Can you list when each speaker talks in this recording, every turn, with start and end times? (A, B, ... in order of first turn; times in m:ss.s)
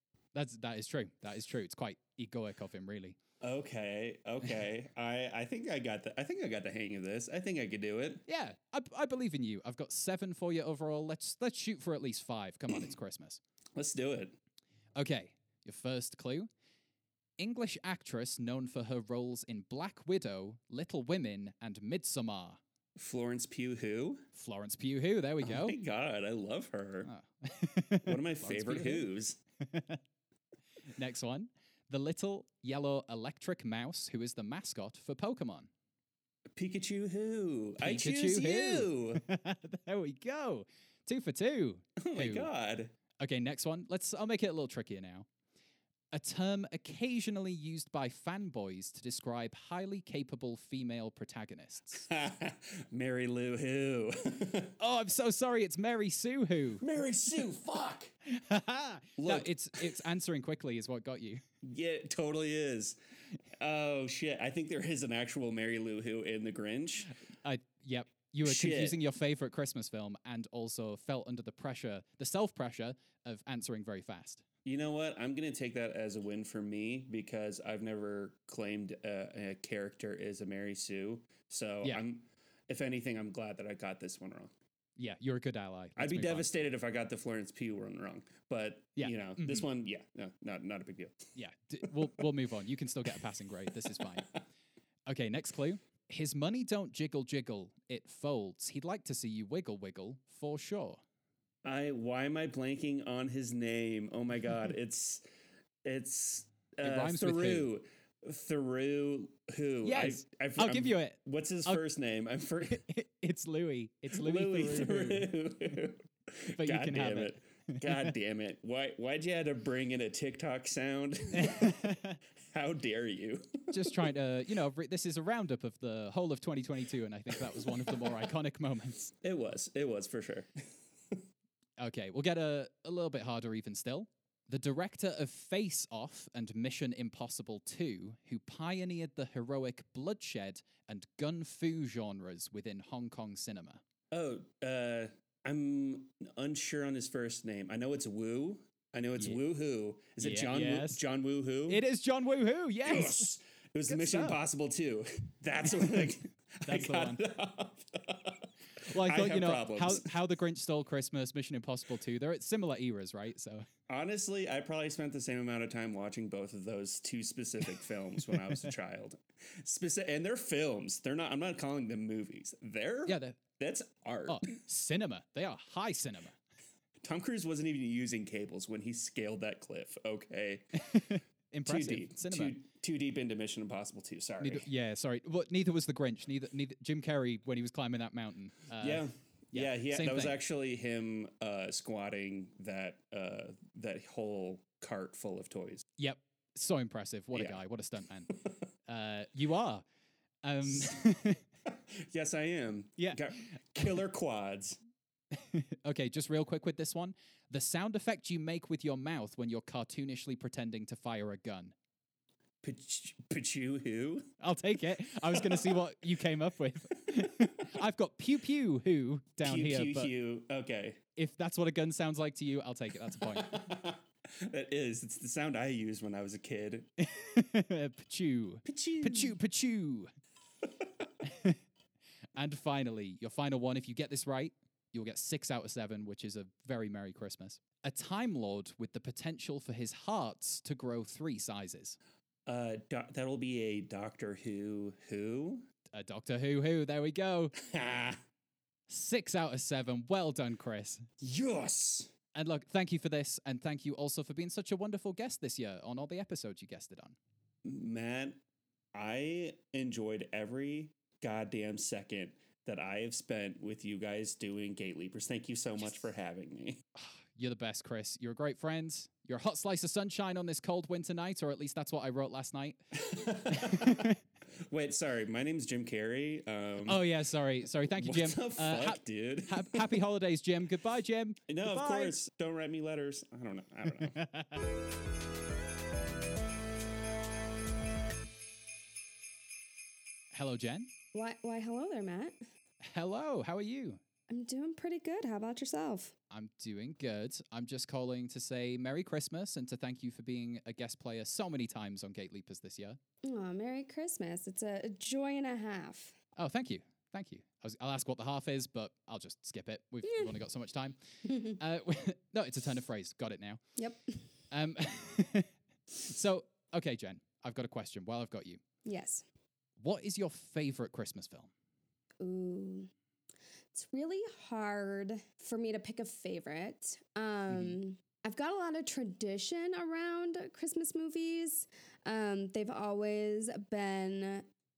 0:00.3-0:03.2 A
0:03.4-0:08.2 B
0:08.3-0:13.4 A
0:13.8-0:14.4 B
0:15.0-0:16.5 A
0:17.4-0:22.6 A
0:23.0-0:24.2 B
0:24.3-0:25.8 A
0:25.4-0:27.1 B
0:27.0-0:29.1 A
0:28.0-0:29.4 B
0:29.6-0:30.0 A
0:30.9-0:35.7 A
0:36.5-0:39.2 B
0:37.8-0:42.5 A
0:42.0-0:42.9 B
0:43.2-0:45.2 A
0:46.1-0:52.0 A
0:52.1-0:54.7 B
0:54.8-0:56.8 A
0:56.8-0:58.1 B
0:58.3-1:01.4 A
0:59.2-1:00.0 B
1:01.6-1:03.0 B
1:03.6-1:07.1 B
1:07.0-1:14.4 A
1:08.4-1:09.0 B
1:14.6-1:24.5 B
1:25.0-1:26.5 A
1:26.0-1:31.2 B
1:29.0-1:29.7 A
1:31.4-1:34.3 A
1:35.1-1:41.0 A
1:41.6-1:45.2 B
1:45.8-1:52.8 B
1:46.8-1:47.7 A
1:49.8-1:51.8 A
1:52.6-1:55.3 A
1:54.2-2:01.8 B
1:56.6-1:58.1 A
2:01.3-2:02.2 A
2:02.5-2:04.0 B
2:03.7-2:09.1 A
2:09.2-2:10.5 B
2:11.8-2:23.8 A
2:24.1-2:31.8 B
2:30.2-2:31.0 A
2:31.7-2:33.3 A
2:32.8-2:40.1 B
2:33.9-2:34.4 A
2:35.7-2:36.1 A
2:36.6-2:37.2 A
2:38.9-2:43.6 A
2:43.9-2:54.5 B
2:53.0-2:53.4 A
2:54.3-2:56.4 A
2:57.0-3:00.8 B
3:00.8-3:02.6 A
3:01.6-3:04.6 B
3:04.4-3:10.4 A
3:08.8-3:15.8 B
3:16.0-3:18.3 A
3:18.8-3:19.8 A
3:20.4-3:21.4 A
3:22.0-3:24.8 B
3:23.0-3:24.0 A
3:25.3-3:31.7 A
3:32.6-3:34.3 B
3:34.4-3:40.1 A
3:35.3-3:35.8 B
3:39.4-3:41.0 B
3:41.2-3:43.7 A
3:43.3-3:46.9 B
3:47.0-3:50.1 A
3:48.6-3:49.4 B
3:51.2-3:51.6 A
3:52.4-4:02.0 A
4:02.4-4:05.6 B
4:05.9-4:07.5 A
4:07.6-4:08.2 B
4:08.9-4:11.1 A
4:11.2-4:12.1 B
4:12.3-4:17.2 A
4:17.6-4:18.4 B
4:18.9-4:26.8 B
4:27.0-4:32.8 A
4:33.0-4:34.1 B
4:33.5-4:34.2 A
4:34.7-4:37.1 B
4:36.8-4:42.2 A
4:38.0-4:40.0 B
4:41.5-4:44.2 B
4:43.9-4:44.6 A
4:50.3-4:50.9 A
4:51.1-4:52.4 C
4:52.8-4:54.0 A
4:54.3-4:56.1 C
4:56.3-5:03.0 A
5:03.2-5:06.1 C
5:06.4-5:13.6 A
5:10.0-5:10.3 C
5:11.2-5:11.6 C
5:14.5-5:18.6 A
5:18.8-5:19.2 C
5:19.8-5:21.5 A
5:22.2-5:22.9 C
5:23.7-5:34.4 C
5:27.5-5:27.8 A